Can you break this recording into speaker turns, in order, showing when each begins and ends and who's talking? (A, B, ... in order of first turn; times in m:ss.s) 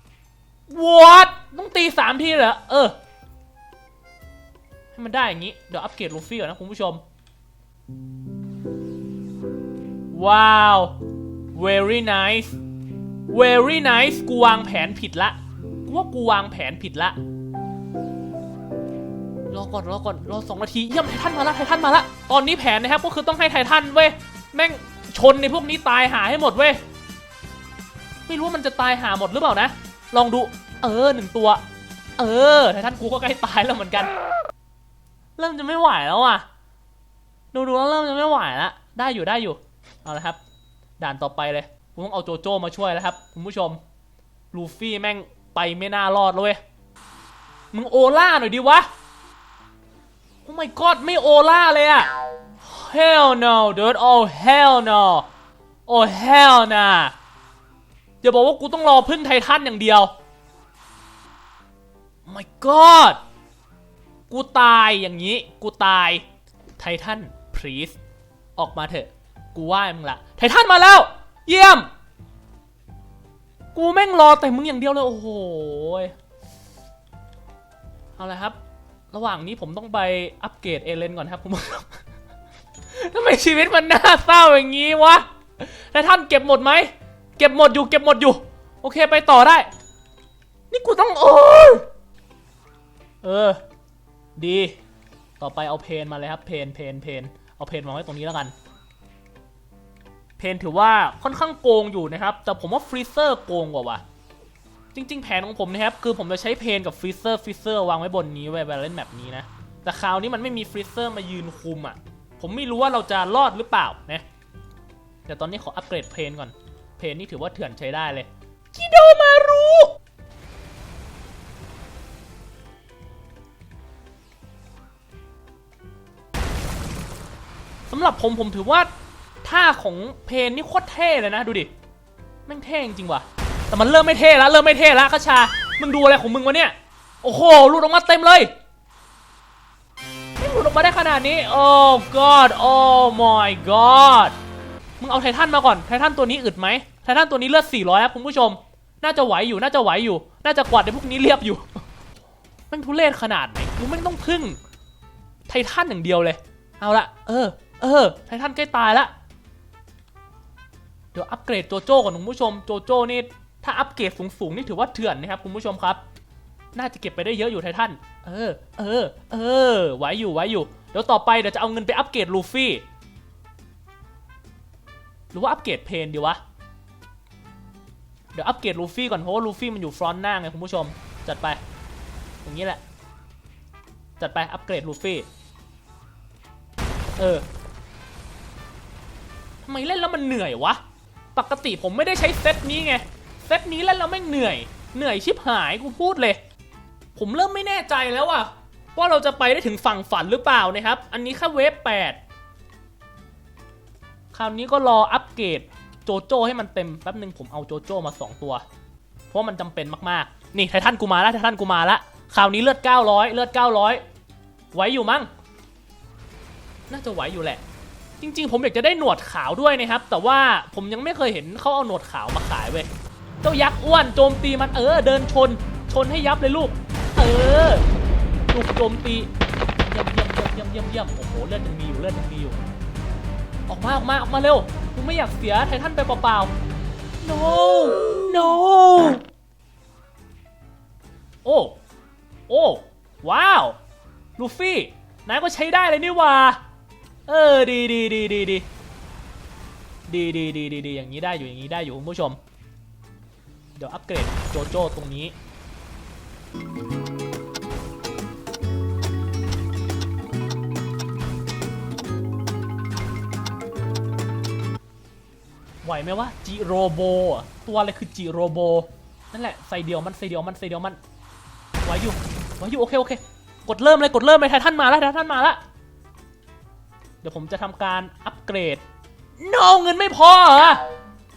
0:00.7-0:03.0 A
0:04.9-0:07.0 A
0:10.1-0:11.0 A
0:11.5-0:12.6 A
0:13.3-0:17.2 A
0:19.5-0:26.8 A
0:28.3-0:31.6 A
0:32.2-0:34.1 A
0:35.4-0:36.4 A
0:37.5-0:40.4 A
0:41.0-0:43.8 A
0:44.5-0:46.6 A
0:47.7-0:48.9 A
0:50.4-0:52.1 A
0:52.6-0:55.2 A
0:55.9-0:57.1 A
0:58.2-1:00.1 A
1:02.2-1:03.2 A
1:04.3-1:06.2 A
1:06.8-1:08.0 A
1:08.6-1:11.9 A
1:13.7-1:16.1 A
1:18.2-1:18.6 A
1:19.1-1:22.0 A
1:22.9-1:29.7 A
1:30.7-1:31.8 A
1:33.2-1:33.6 A
1:34.4-1:34.7 A
1:35.4-1:38.5 A
1:40.4-1:44.0 A
1:44.9-1:54.2 A
1:55.2-1:59.9 A
2:07.9-2:08.9 A
2:09.4-2:11.7 A
2:12.4-2:18.5 A
2:20.4-2:24.3 A
2:25.0-2:31.8 A
2:32.7-2:34.6 A
2:35.5-2:39.1 A
2:41.1-2:46.0 A
2:46.7-2:52.8 A
2:55.3-2:56.4 A
2:58.3-3:01.6 A
3:02.4-3:02.8 A
3:04.2-3:05.3 A
3:07.2-3:07.4 A
3:09.6-3:10.8 A
3:11.3-3:16.4 A
3:17.1-3:22.2 A
3:24.3-3:28.6 A
3:29.3-3:34.0 A
3:34.7-3:35.3 A
3:36.9-3:37.6 A
3:38.2-3:42.9 A
3:43.4-3:47.8 A
3:48.5-3:52.6 A
3:53.7-3:56.5 A
3:57.2-3:59.2 A
4:01.4-4:01.8 A
4:02.5-4:03.8 A
4:04.4-4:06.6 A
4:07.3-4:08.6 A
4:10.1-4:12.4 A
4:13.8-4:15.3 A
4:25.8-4:31.0 A
4:31.8-4:35.6 A
4:37.2-4:38.8 A
4:39.4-4:40.8 A